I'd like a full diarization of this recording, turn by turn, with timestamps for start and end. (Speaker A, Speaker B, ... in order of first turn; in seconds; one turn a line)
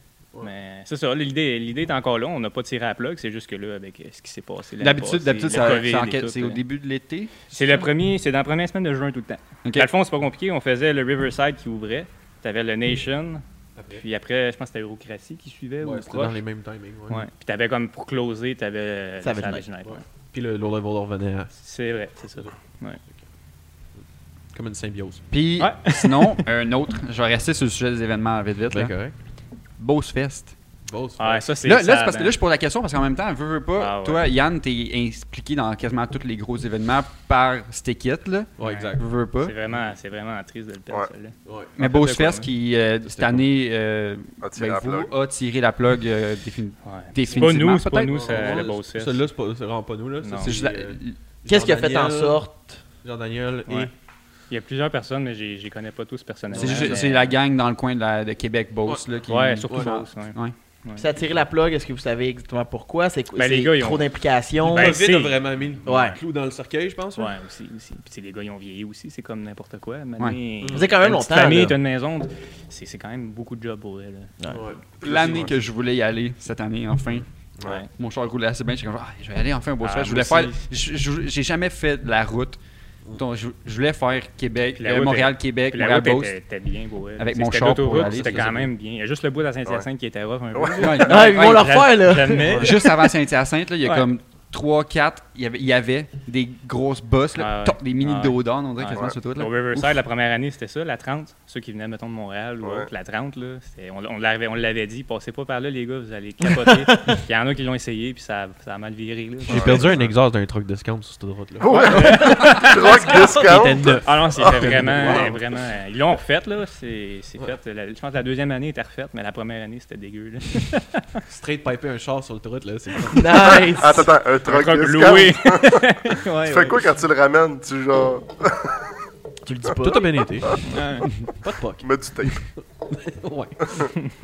Speaker A: 0.4-6.6
Speaker B: 4.8-7.5
Speaker A: 7.5-16.4
Speaker C: 13.8-14.0
Speaker C: 15.8-17.2
Speaker A: 17.1-20.0
Speaker D: 19.2-19.6
Speaker C: 19.8-21.5
Speaker A: 21.6-23.0
Speaker C: 24.5-25.2
Speaker B: 25.3-28.9
Speaker A: 25.6-26.4
Speaker C: 28.7-29.1
Speaker B: 29.8-30.5
Speaker C: 30.9-31.5
Speaker A: 31.2-32.4
Speaker B: 31.6-39.5
Speaker A: 33.8-34.2
Speaker C: 38.6-39.1
Speaker A: 38.6-42.5
Speaker C: 41.4-41.7
Speaker B: 41.8-48.6
Speaker C: 43.0-43.5
Speaker E: 44.4-45.1
Speaker A: 46.8-49.2
Speaker C: 47.3-52.4
Speaker A: 50.2-50.6
Speaker B: 50.4-51.2
Speaker D: 51.5-52.8
Speaker C: 53.0-53.9
Speaker A: 54.5-57.3
Speaker C: 56.5-57.0
Speaker B: 56.5-60.5
Speaker A: 59.3-61.0
Speaker C: 59.7-60.0
Speaker D: 61.0-65.0
Speaker A: 63.4-64.1
Speaker A: 64.6-66.0
Speaker C: 64.6-67.3
Speaker D: 65.8-66.2
Speaker A: 67.2-74.4
Speaker C: 70.6-70.9
Speaker D: 70.7-71.8
Speaker C: 74.5-75.5
Speaker B: 75.0-77.3
Speaker A: 77.6-77.9
Speaker B: 77.9-82.6
Speaker A: 79.8-80.6
Speaker B: 83.1-86.4
Speaker A: 84.8-92.9
Speaker B: 87.2-88.7
Speaker C: 88.0-88.4
Speaker E: 90.5-91.0
Speaker B: 90.8-99.9
Speaker D: 91.0-92.7
Speaker A: 97.4-109.9
Speaker E: 102.6-102.9
Speaker D: 106.9-107.2
Speaker C: 109.5-115.4
Speaker E: 109.5-110.1
Speaker E: 111.6-115.2
Speaker A: 111.7-113.3
Speaker D: 112.0-112.6
Speaker A: 114.0-121.0
Speaker C: 121.3-123.6
Speaker D: 123.1-124.1
Speaker E: 123.8-128.9
Speaker A: 124.5-126.8
Speaker D: 129.4-130.2
Speaker C: 129.8-133.6
Speaker A: 130.7-131.0
Speaker E: 131.8-132.5